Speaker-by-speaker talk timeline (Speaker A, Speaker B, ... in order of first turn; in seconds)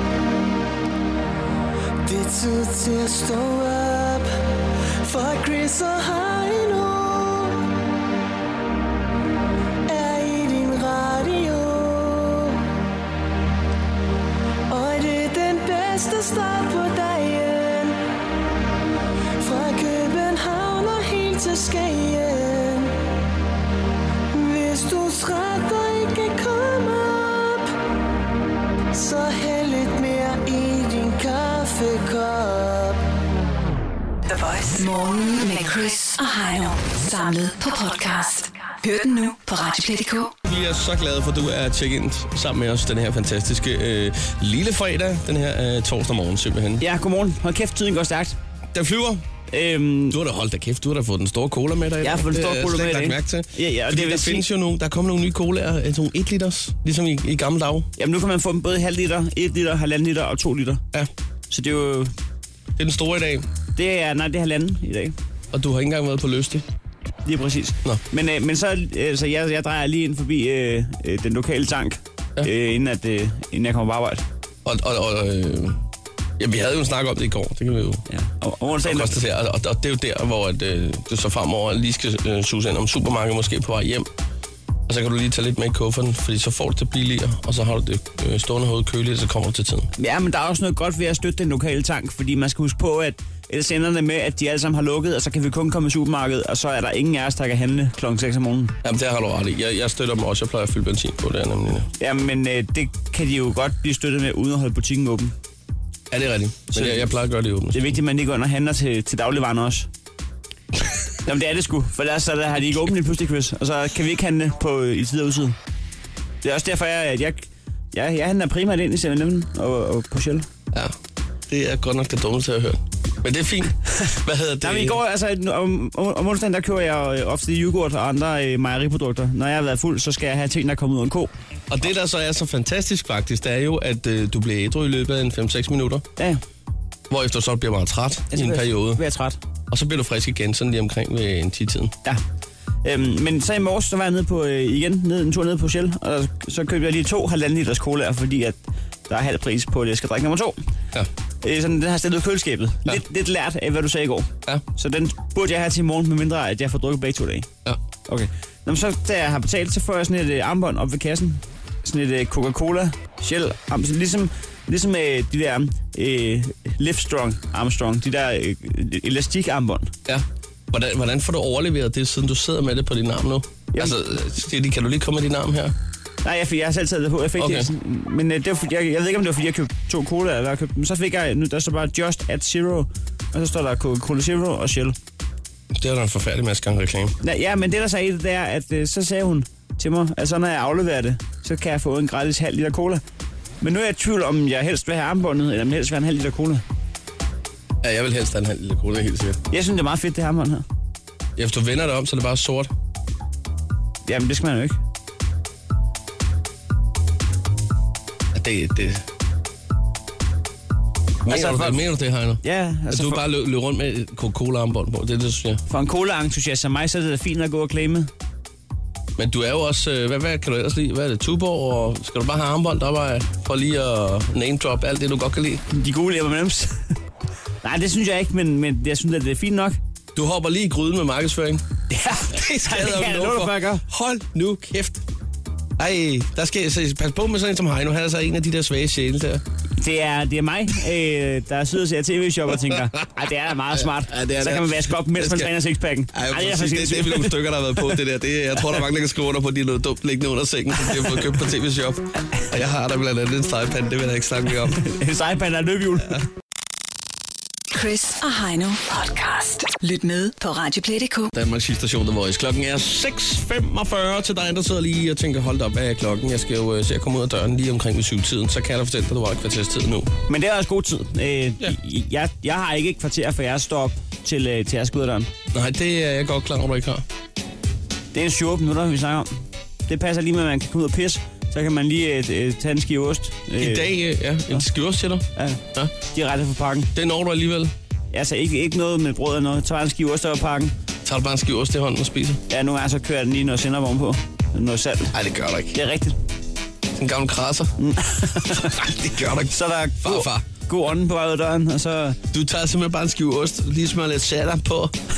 Speaker A: 2.0-4.3, 5.0-7.6, 9.9-12.6, 14.7-18.0, 19.4-22.9, 24.3-27.7, 28.9-33.0
Speaker B: 34.3-40.3, 257.7-261.3
Speaker C: 40.4-46.8, 48.7-49.2, 50.1-57.9, 62.8-63.5, 65.5-66.6, 74.6-75.8, 76.4-78.0, 78.8-84.1, 84.9-89.9, 98.8-101.9, 106.1-107.9, 121.5-125.0, 131.7-136.0, 137.1-139.0, 139.7-141.9, 170.1-175.7, 177.4-177.7, 185.7-187.1, 197.8-199.4, 201.4-202.7, 208.3-209.0, 211.2-215.6, 219.2-225.6, 230.1-231.6, 232.3-235.0, 235.8-239.4, 242.7-243.1, 243.7-245.5, 246.1-254.9, 261.3-270.1, 275.5-277.0, 283.6-285.9, 286.9-287.7, 291.0-292.4, 295.1-295.8, 296.9-297.7, 298.5-300.4, 302.3-305.0
Speaker D: 46.8-48.4, 49.5-50.2, 52.0-54.4, 58.0-60.8, 61.5-62.1, 63.8-65.1, 67.2-74.2, 78.1-79.1, 90.0-98.7, 102.0-105.3, 106.7-107.1, 107.7-109.9, 111.2-115.5, 116.4-120.5, 124.6-131.3, 138.3-139.4, 142.8-148.6, 149.1-150.6, 151.4-157.5, 158.1-169.9, 176.2-184.9, 187.2-193.0, 193.6-196.6, 199.5-200.6, 204.1-204.8, 211.2-211.8, 212.4-213.2, 215.7-218.1, 225.7-226.9, 227.6-229.8, 231.9-233.8, 239.8-247.4, 254.8-256.2, 270.3-275.3, 278.1-283.9, 285.4-286.9, 288.1-290.7, 292.5-295.1, 295.7-296.1, 297.8-298.8, 299.5-302.2